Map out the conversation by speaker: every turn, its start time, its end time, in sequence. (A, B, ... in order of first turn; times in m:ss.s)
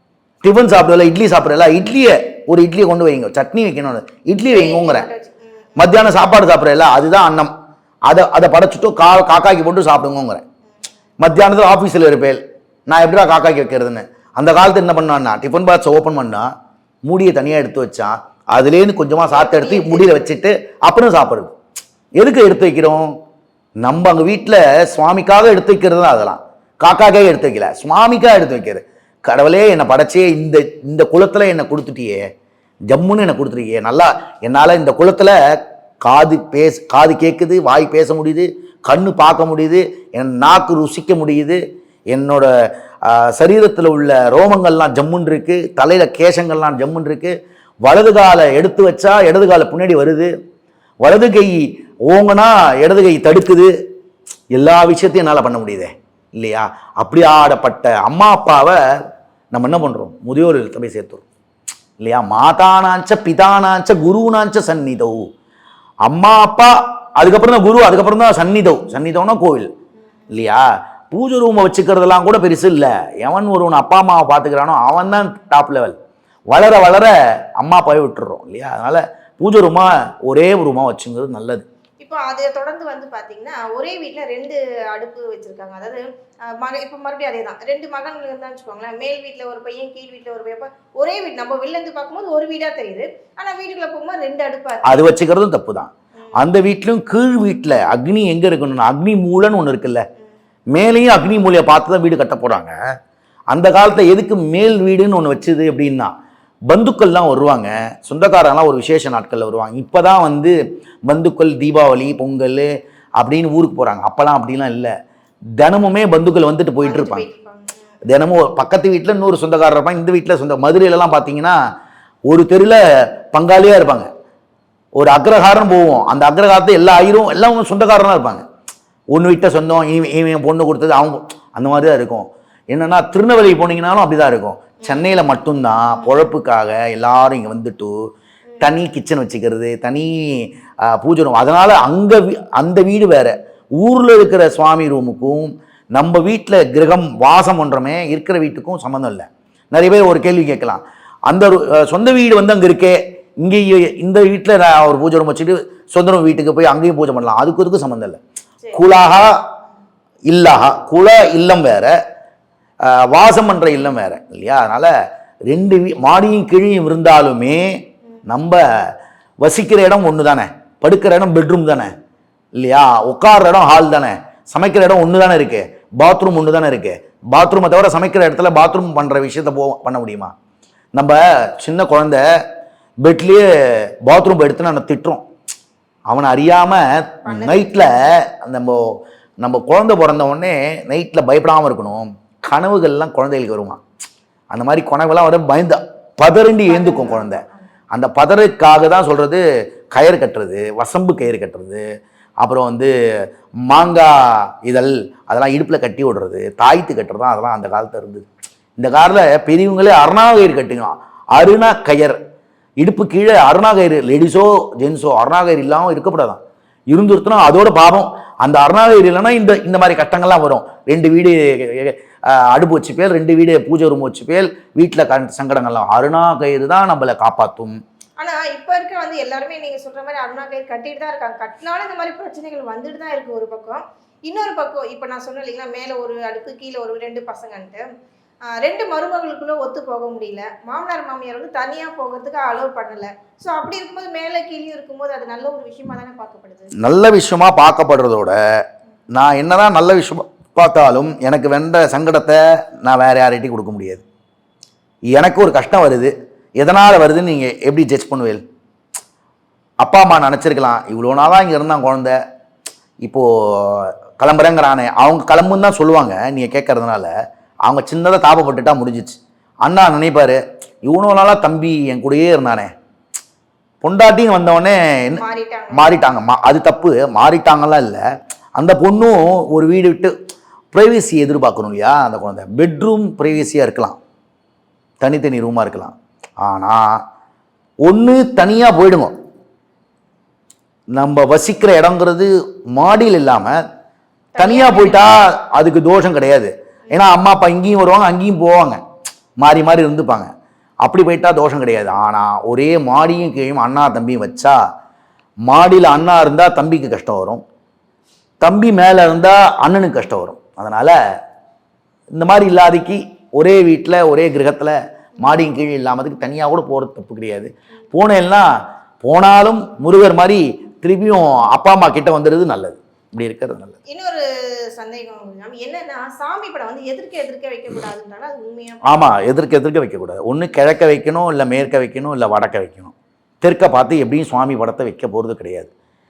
0:00.4-0:05.1 A
0:04.5-0:05.4 B
0:05.8-0:07.5 A
0:08.1-0:10.4 A
0:11.2-0:16.5 A
0:17.0-0:21.5 A
0:19.3-0:20.1 B
0:22.2-0:23.1 A
0:23.8-0:32.2 A
0:32.9-0:35.4 A
0:36.0-0:41.6 A
0:42.1-0:42.5 A
0:43.0-0:47.3 A
0:47.8-0:50.3 A
0:51.0-0:53.7 A
0:54.5-0:58.8 A
0:59.5-1:01.2 A
1:02.0-1:05.3 A
1:06.0-1:09.7 A
1:10.3-1:16.0 A
1:16.5-1:21.6 A
1:22.0-1:35.0 B
1:34.8-1:40.0 A
1:40.7-1:42.7 A
1:43.5-1:46.1 A
1:46.7-1:54.9 A
1:55.6-1:57.2 A
1:56.8-1:57.8 B
1:58.0-2:01.6 A
2:02.3-2:02.8 A
2:03.3-2:04.1 A
2:05.0-2:08.4 A
2:09.1-2:17.9 A
2:14.8-2:15.2 B
2:18.6-2:38.2 A
2:38.7-2:39.4 A
2:40.3-2:41.9 A
2:42.8-2:44.9 A
2:45.5-2:48.6 A
2:49.4-2:51.9 A
2:52.6-3:00.3 A
3:00.9-3:02.2 A
3:03.0-3:03.4 A
3:04.0-3:05.2 A
3:06.1-3:13.8 A
3:07.3-3:07.8 B
3:14.5-3:21.8 A
3:16.7-3:17.6 B
3:22.4-3:22.9 A
3:23.7-3:32.2 A
3:32.8-3:36.4 A
3:36.9-3:47.8 A
3:48.2-3:57.8 B
3:58.5-4:06.7 B
4:06.8-4:08.4 A
4:09.1-4:14.0 A
4:15.1-4:18.4 A
4:19.8-4:22.2 A
4:23.0-4:27.1 A
4:27.6-4:32.7 A
4:33.8-4:35.2 A
4:35.1-4:35.9 B
4:35.7-4:38.0 A
4:38.6-4:40.1 A
4:40.7-4:44.0 A
4:45.0-4:47.0 A
4:47.8-4:49.1 A
4:50.9-4:53.6 A
4:54.3-4:55.1 B
4:54.4-4:58.8 A
4:59.4-5:00.3 A
5:00.8-5:04.6 A
5:05.5-5:07.4 A
5:08.4-5:11.0 A
5:12.1-5:18.5 A
5:19.0-5:23.8 A
5:23.9-5:28.8 B
5:28.8-5:35.7 A